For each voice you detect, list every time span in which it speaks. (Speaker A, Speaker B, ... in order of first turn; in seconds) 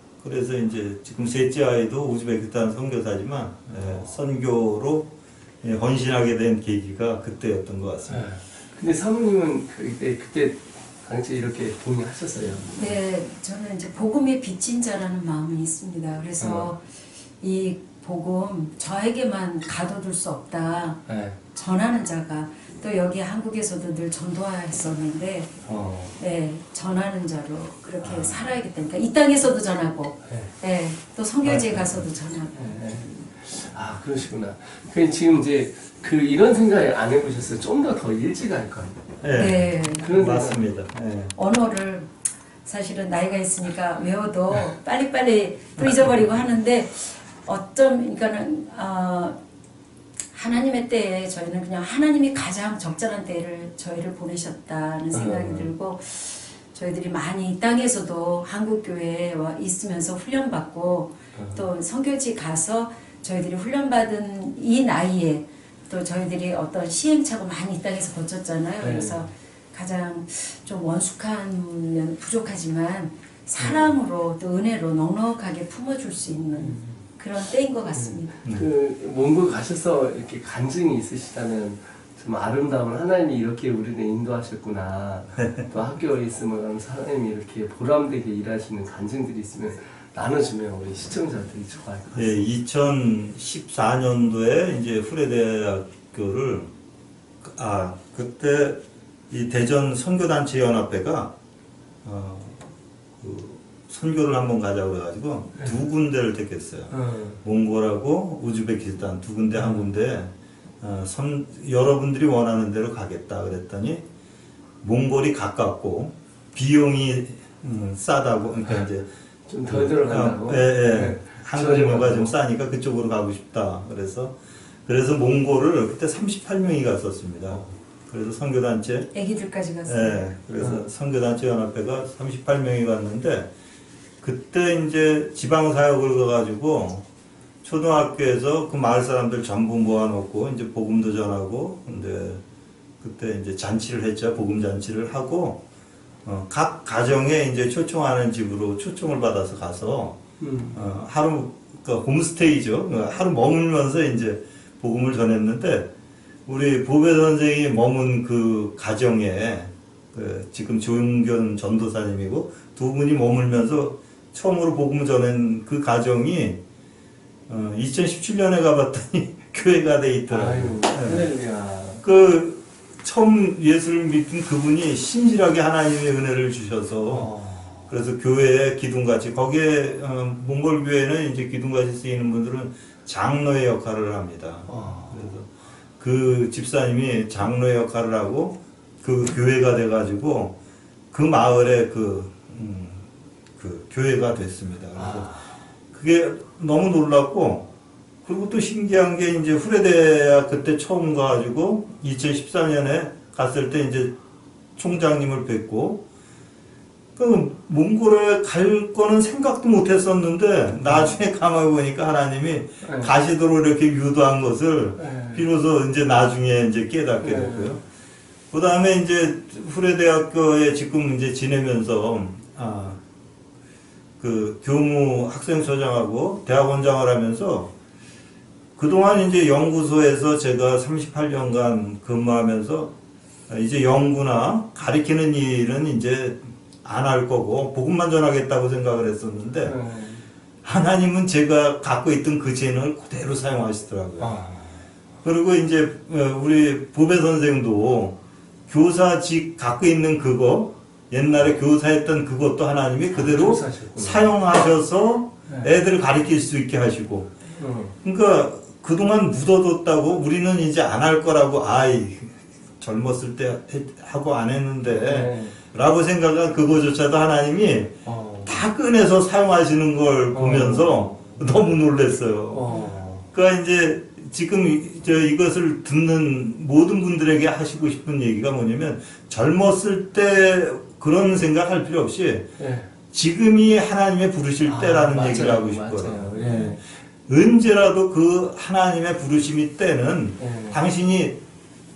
Speaker A: 0.2-5.1, 5.6-8.3, 31.4-32.0, 39.2-41.3, 85.4-85.7, 92.1-96.7, 97.4-98.8, 99.3-101.3, 102.0-102.6, 103.2-114.0, 114.8-119.1, 119.7-124.3, 124.9-129.1, 129.9-133.5, 134.2-137.0, 137.6-142.4, 143.0-145.6, 146.2-150.2, 150.7-155.9, 156.5-166.6, 167.5-171.3, 172.0-177.3, 177.9-185.5, 186.0-190.6, 191.1-193.0, 193.6-195.3, 195.9-197.7, 198.2-204.1, 204.8-206.0, 207.2-217.8, 218.5-223.0, 224.2-227.7, 228.8-232.9, 233.5-239.7, 240.6-244.4, 245.2-248.2, 248.7-257.3, 258.0-272.7, 273.3-282.5, 283.1-286.7, 287.3-291.4
Speaker B: 3.7-4.1, 8.1-13.0, 16.4-16.7, 21.1-21.4, 25.6-26.2, 28.0-28.5, 32.5-39.0, 40.0-40.6, 55.1-55.7, 61.4-61.7, 68.8-69.2, 73.6-73.9, 76.5-77.0, 77.9-92.5, 106.9-107.4, 109.5-109.9, 119.5-122.3, 130.6-130.9, 150.4-150.8, 170.3-172.0, 177.1-177.9, 184.7-185.3, 194.9-195.4, 210.8-211.2, 212.8-213.1, 215.0-215.4, 217.2-217.8, 239.6-240.2, 244.2-244.8, 253.1-254.4, 257.6-257.9, 264.9-265.6, 268.1-268.6, 270.3-271.1, 272.5-273.2, 282.6-282.9, 284.6-286.8, 290.4-290.8
Speaker C: 12.8-16.8, 17.4-25.6, 26.2-32.9, 39.3-40.1, 41.4-42.1, 42.6-49.4, 50.3-78.4, 129.1-130.3